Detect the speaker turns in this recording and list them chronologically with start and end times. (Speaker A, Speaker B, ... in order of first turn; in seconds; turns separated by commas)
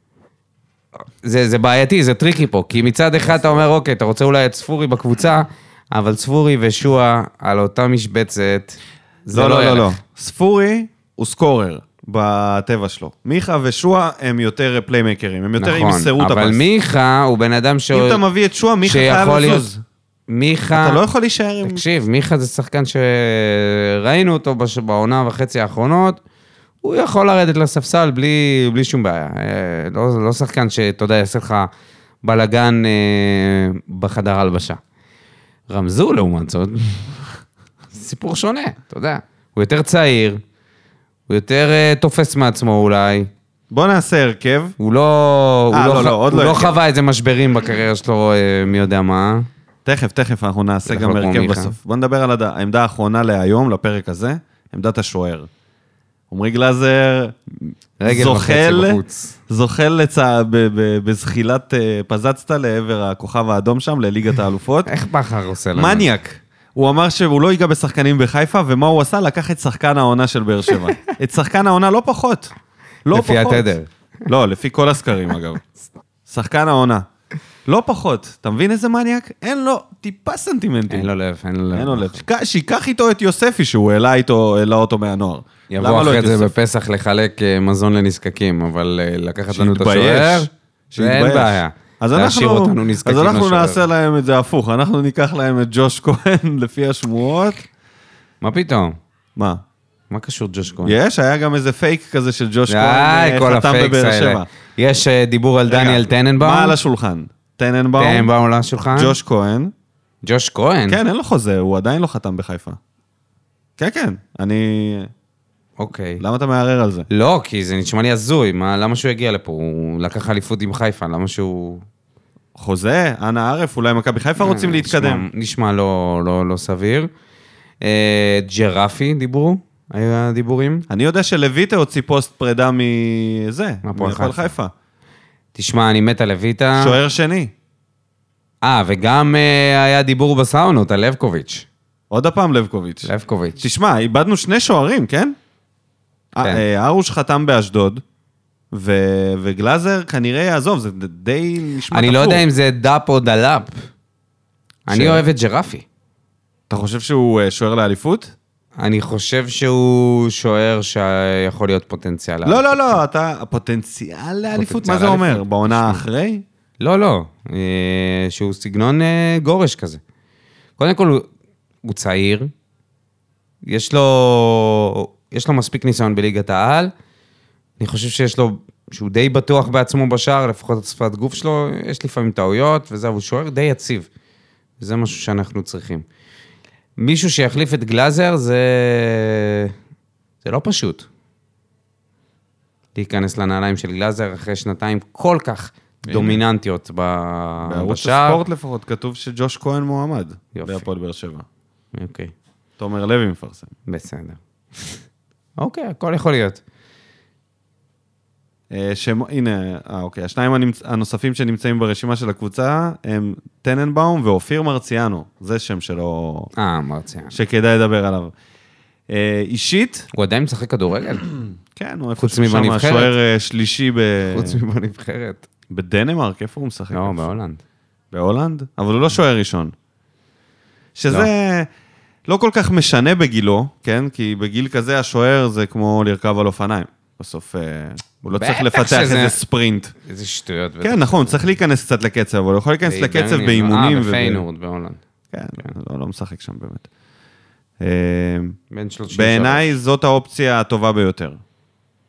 Speaker A: 1.2-10.0, Speaker B: 9.3-16.6, Speaker A: 15.6-18.2, Speaker B: 17.9-19.8, Speaker A: 18.8-19.7, Speaker A: 20.3-21.0, Speaker B: 20.7-21.8, Speaker A: 21.6-26.2, Speaker A: 26.8-31.7, Speaker A: 32.2-34.8, Speaker A: 35.7-37.2, Speaker A: 37.9-40.4, Speaker A: 41.3-43.3, Speaker B: 43.7-44.8, Speaker A: 44.8-49.5, Speaker B: 45.7-46.7, Speaker B: 49.9-55.5, Speaker A: 50.9-51.7, Speaker B: 56.3-64.9, Speaker A: 58.0-59.4, Speaker A: 64.9-66.1, Speaker B: 65.7-72.5, Speaker B: 73.1-73.7, Speaker A: 73.1-73.9, Speaker B: 74.3-75.6, Speaker B: 76.3-77.1, Speaker B: 77.7-81.1, Speaker A: 80.9-82.2, Speaker B: 81.7-86.5, Speaker A: 85.7-93.8, Speaker B: 89.5-97.7, Speaker A: 98.4-99.0, Speaker B: 99.4-99.6, Speaker A: 100.1-101.0, Speaker B: 100.8-104.5, Speaker A: 102.7-106.8, Speaker B: 105.7-108.3, Speaker A: 108.0-109.2, Speaker B: 108.9-109.7, Speaker A: 110.2-111.0, Speaker B: 110.9-112.8, Speaker B: 113.8-115.1, Speaker A: 115.8-116.2, Speaker B: 116.2-117.1, Speaker A: 117.1-121.8, Speaker B: 122.5-125.2, Speaker A: 124.4-127.1, Speaker A: 127.8-130.8, Speaker B: 130.9-134.7, Speaker A: 133.8-134.5, Speaker A: 135.6-137.0, Speaker B: 136.8-137.5, Speaker A: 138.6-141.7, Speaker B: 142.1-145.4, Speaker A: 143.1-143.6, Speaker B: 146.3-148.0, Speaker B: 148.7-152.4, Speaker A: 151.9-153.7, Speaker A: 154.9-155.8, Speaker B: 154.9-155.2, Speaker B: 156.7-158.3, Speaker A: 158.8-163.0, Speaker B: 162.4-166.4, Speaker A: 164.5-166.0, Speaker A: 166.8-170.0, Speaker A: 170.8-171.3, Speaker A: 171.8-172.5, Speaker A: 173.7-176.9, Speaker A: 177.8-184.1, Speaker A: 184.8-186.1, Speaker A: 187.0-189.7, Speaker A: 190.4-191.1, Speaker A: 193.0-198.4, Speaker B: 196.1-196.4, Speaker B: 197.7-201.4, Speaker A: 200.6-200.9, Speaker A: 201.9-202.3, Speaker B: 202.8-203.7, Speaker A: 203.9-205.0, Speaker A: 205.6-206.6, Speaker B: 208.7-216.5, Speaker A: 216.6-217.3, Speaker B: 217.3-218.3, Speaker B: 219.1-220.1, Speaker A: 220.1-221.3, Speaker B: 221.7-224.6, Speaker A: 222.2-223.2, Speaker A: 224.3-225.4, Speaker B: 225.7-227.3, Speaker A: 226.9-227.6, Speaker B: 228.1-229.7, Speaker B: 230.9-231.7, Speaker B: 232.3-239.9, Speaker A: 238.3-239.4, Speaker A: 240.1-241.4, Speaker B: 240.8-244.4, Speaker A: 242.8-245.0, Speaker B: 245.3-246.9, Speaker B: 247.8-248.6, Speaker A: 248.7-249.7, Speaker B: 249.1-251.4